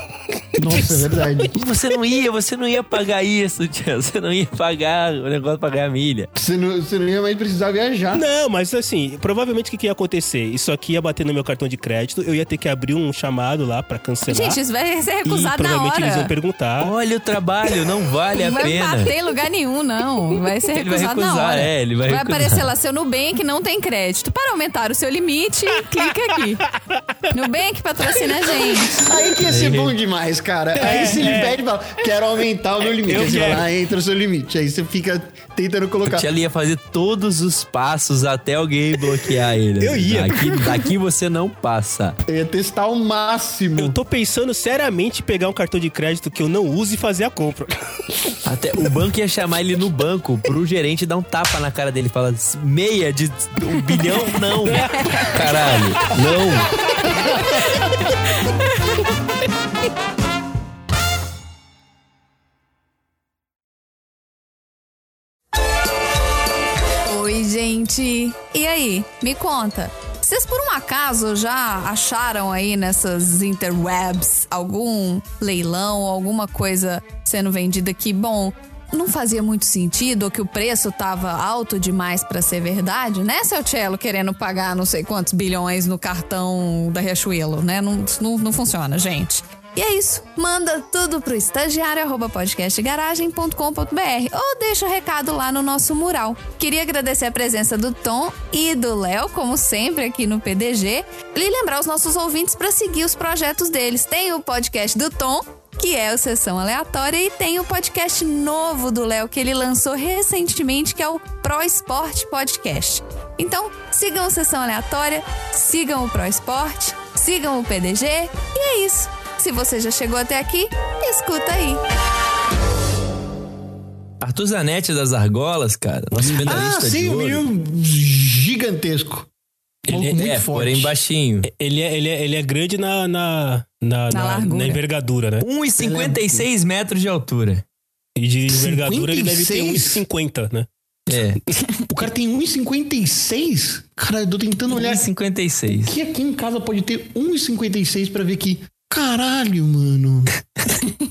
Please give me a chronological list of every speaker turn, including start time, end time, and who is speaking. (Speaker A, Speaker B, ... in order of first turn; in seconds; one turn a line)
Speaker A: 0.5-1.5
Speaker B: 0.6-1.5
Speaker C: 1.5-6.3
Speaker B: 6.3-8.2
Speaker A: 8.1-14.6
Speaker D: 14.3-16.3
Speaker A: 15.2-16.9
Speaker C: 16.8-19.1
Speaker D: 18.3-26.7
Speaker C: 20.7-22.7
Speaker D: 27.3-29.0
Speaker B: 28.9-36.3
Speaker C: 29.4-29.9
Speaker A: 30.7-31.6
Speaker A: 32.9-33.7
Speaker C: 36.0-42.2
Speaker A: 39.8-40.8
Speaker B: 42.2-44.0
Speaker A: 43.8-47.7
Speaker C: 48.5-56.8
Speaker A: 54.0-56.2
Speaker D: 57.4-59.1
Speaker D: 67.0-121.8
Speaker C: 124.2-127.5
Speaker A: 126.1-126.7
Speaker B: 126.2-129.3
Speaker B: 129.8-130.9
Speaker C: 129.9-131.5
Speaker A: 131.4-135.4
Speaker D: 134.1-134.8
Speaker C: 135.4-137.6
Speaker B: 135.8-136.5
Speaker A: 138.2-140.7
Speaker B: 138.5-140.0
Speaker C: 141.1-141.4
Speaker B: 141.9-145.1
Speaker C: 144.7-145.9
Speaker B: 145.8-150.4